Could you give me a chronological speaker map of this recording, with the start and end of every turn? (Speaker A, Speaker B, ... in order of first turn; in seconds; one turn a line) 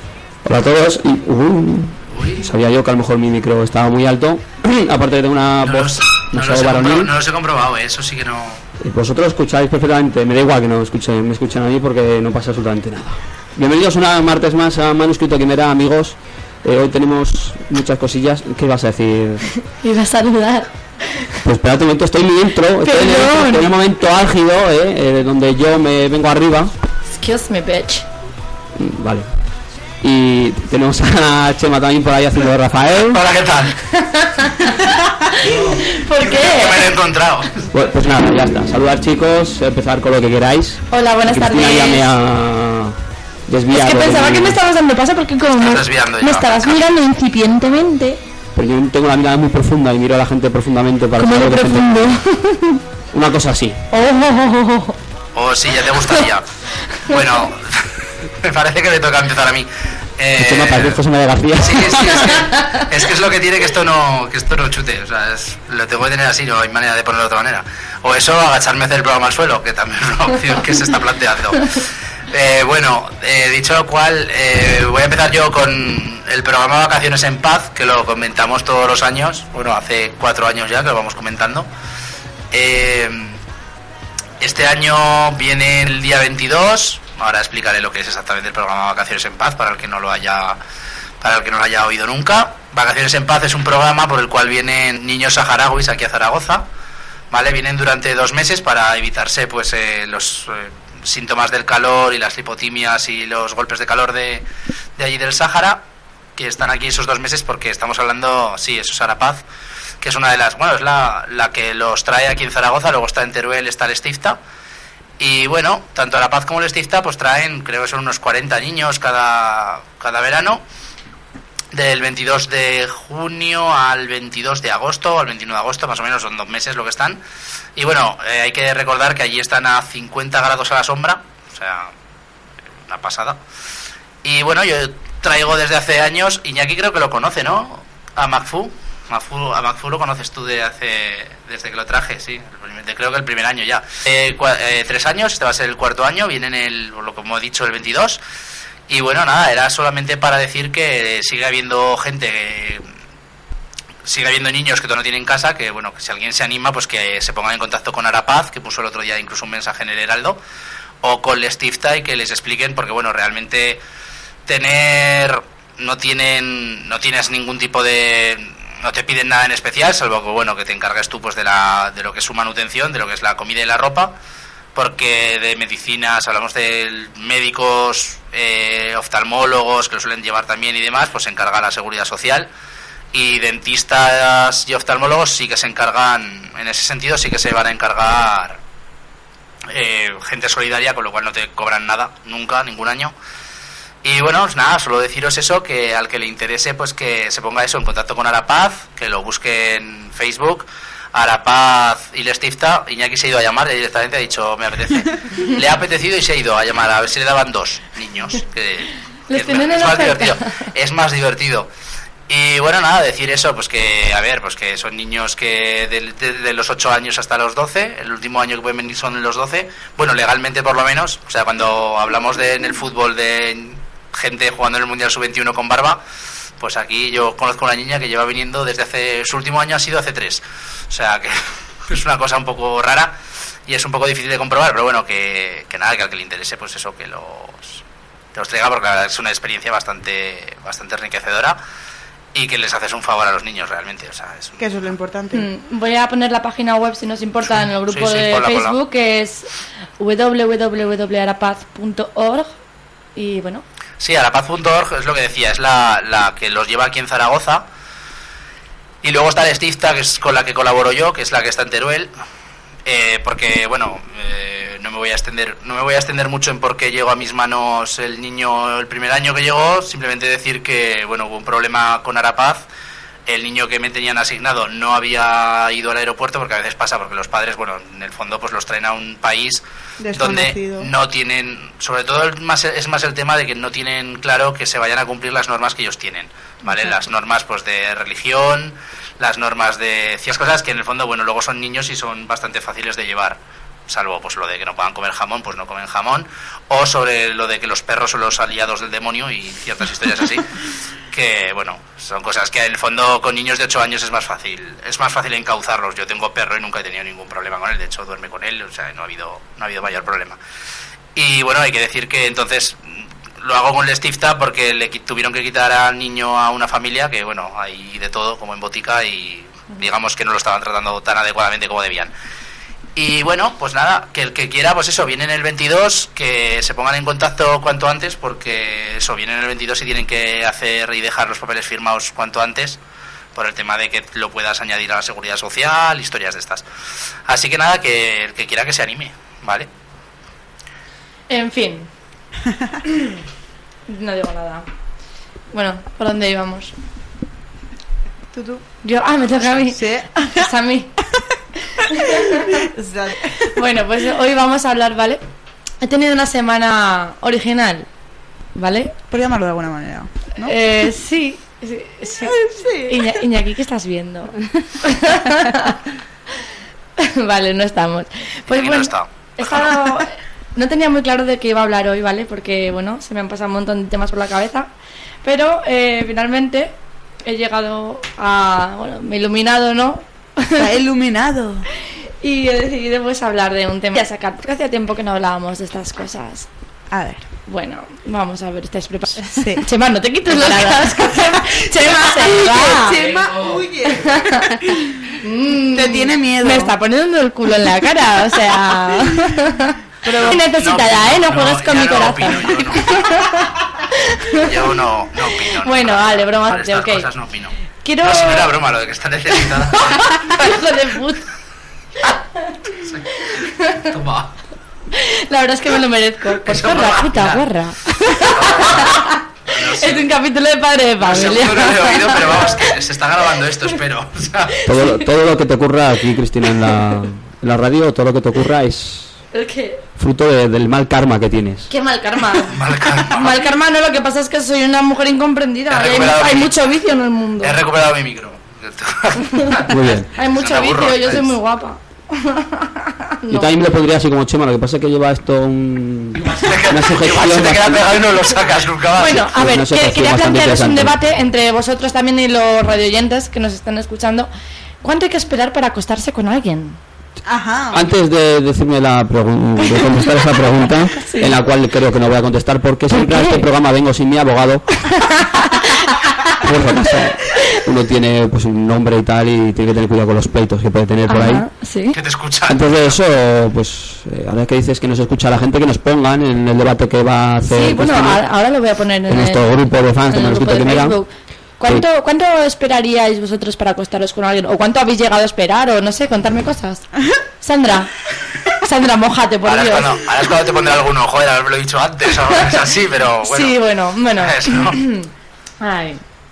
Speaker A: 0.5-7.1
Speaker B: 2.1-2.5
Speaker B: 5.6-8.6
Speaker A: 8.8-19.4
Speaker C: 19.7-21.2
Speaker A: 21.4-26.7
Speaker C: 22.8-23.7
Speaker C: 27.1-28.1
Speaker A: 28.8-29.3
Speaker A: 30.0-33.2
Speaker B: 33.1-33.8
Speaker C: 33.9-36.9
Speaker B: 35.4-37.6
Speaker A: 37.7-44.6
Speaker C: 40.9-42.1
Speaker C: 43.7-48.2
Speaker B: 45.6-46.8
Speaker A: 48.5-52.2
Speaker C: 51.2-52.8
Speaker A: 53.1-53.8
Speaker C: 53.9-55.0
Speaker B: 55.4-56.5
Speaker B: 57.1-61.0
Speaker A: 60.4-62.3
Speaker B: 61.6-81.7
Speaker C: 62.5-62.8
Speaker B: 82.5-83.4
Speaker B: 84.4-90.6
Speaker B: 91.2-96.7
Speaker B: 97.3-104.5
Speaker B: 105.0-105.8
Speaker B: 106.4-109.4
Speaker B: 110.0-114.4
Speaker B: 115.2-120.6
Speaker B: 121.7-127.2
Speaker B: 127.8-131.9
Speaker B: 132.9-133.4
Speaker B: 134.2-148.2
Speaker B: 148.9-152.9
Speaker B: 154.0-160.4
Speaker B: 161.0-163.8
Speaker B: 164.5-174.1
Speaker B: 174.8-182.5
Speaker B: 183.1-188.6
Speaker B: 189.7-193.1
Speaker B: 194.0-211.7
Speaker C: 209.3-210.4
Speaker B: 212.3-226.0
Speaker B: 226.6-233.1
Speaker B: 233.7-237.8
Speaker B: 238.3-241.6
Speaker B: 242.3-244.9
Speaker D: 244.6-245.5
Speaker C: 245.3-252.6
Speaker B: 247.9-248.8
Speaker C: 253.2-253.6
Speaker B: 254.0-257.6
Speaker B: 259.0-262.1
Speaker B: 262.9-272.6
Speaker B: 273.3-300.5
Speaker D: 280.0-280.9
Speaker B: 301.1-310.4
Speaker B: 311.1-322.1
Speaker B: 323.0-332.8
Speaker B: 333.4-336.6
Speaker B: 337.3-339.7
Speaker C: 341.3-341.9
Speaker C: 343.9-344.6
Speaker C: 345.5-346.7
Speaker D: 348.3-348.6
Speaker C: 348.8-350.9
Speaker B: 349.3-349.6
Speaker D: 349.7-350.2
Speaker C: 351.7-352.7
Speaker D: 352.6-353.4
Speaker C: 353.5-355.2
Speaker C: 355.8-357.9
Speaker C: 358.6-358.9
Speaker D: 359.1-360.5
Speaker C: 360.4-365.8
Speaker D: 362.2-363.1
Speaker C: 367.0-374.7
Speaker B: 368.5-369.9
Speaker C: 375.2-376.7
Speaker C: 377.2-380.7
Speaker D: 380.6-381.7
Speaker C: 382.2-386.5
Speaker D: 386.9-387.3
Speaker C: 387.5-393.0
Speaker D: 389.4-389.7
Speaker D: 390.3-395.1
Speaker B: 392.9-393.6
Speaker C: 393.9-394.6
Speaker C: 395.2-404.5
Speaker D: 395.7-396.8
Speaker D: 400.0-400.4
Speaker B: 400.5-403.4
Speaker B: 404.4-410.3
Speaker C: 405.6-407.1
Speaker C: 407.8-408.5
Speaker C: 410.1-411.3
Speaker B: 412.7-414.3
Speaker C: 413.2-413.9
Speaker C: 414.9-422.6
Speaker B: 416.4-417.4
Speaker B: 418.1-420.1
Speaker B: 421.0-424.6
Speaker A: 424.7-429.2
Speaker C: 424.7-425.1
Speaker C: 429.3-429.8
Speaker A: 430.0-431.7
Speaker C: 431.7-437.6
Speaker B: 432.5-433.5
Speaker B: 435.7-436.6
Speaker B: 437.4-441.4
Speaker A: 439.7-440.1
Speaker C: 440.1-443.5
Speaker A: 443.3-448.1
Speaker B: 446.1-449.2
Speaker C: 449.0-454.3
Speaker A: 449.1-451.0
Speaker C: 454.8-456.8
Speaker D: 457.3-457.8
Speaker A: 457.7-464.6
Speaker C: 459.6-460.4
Speaker C: 460.9-461.4
Speaker C: 462.9-463.5
Speaker C: 464.8-466.1
Speaker A: 466.4-471.5
Speaker C: 471.1-472.0
Speaker B: 471.9-473.0
Speaker A: 472.5-478.2
Speaker C: 477.5-486.9
Speaker A: 479.1-481.0
Speaker C: 487.4-487.9
Speaker C: 488.5-490.0
Speaker B: 489.4-493.6
Speaker C: 493.2-495.1
Speaker B: 494.1-494.8
Speaker C: 495.6-496.0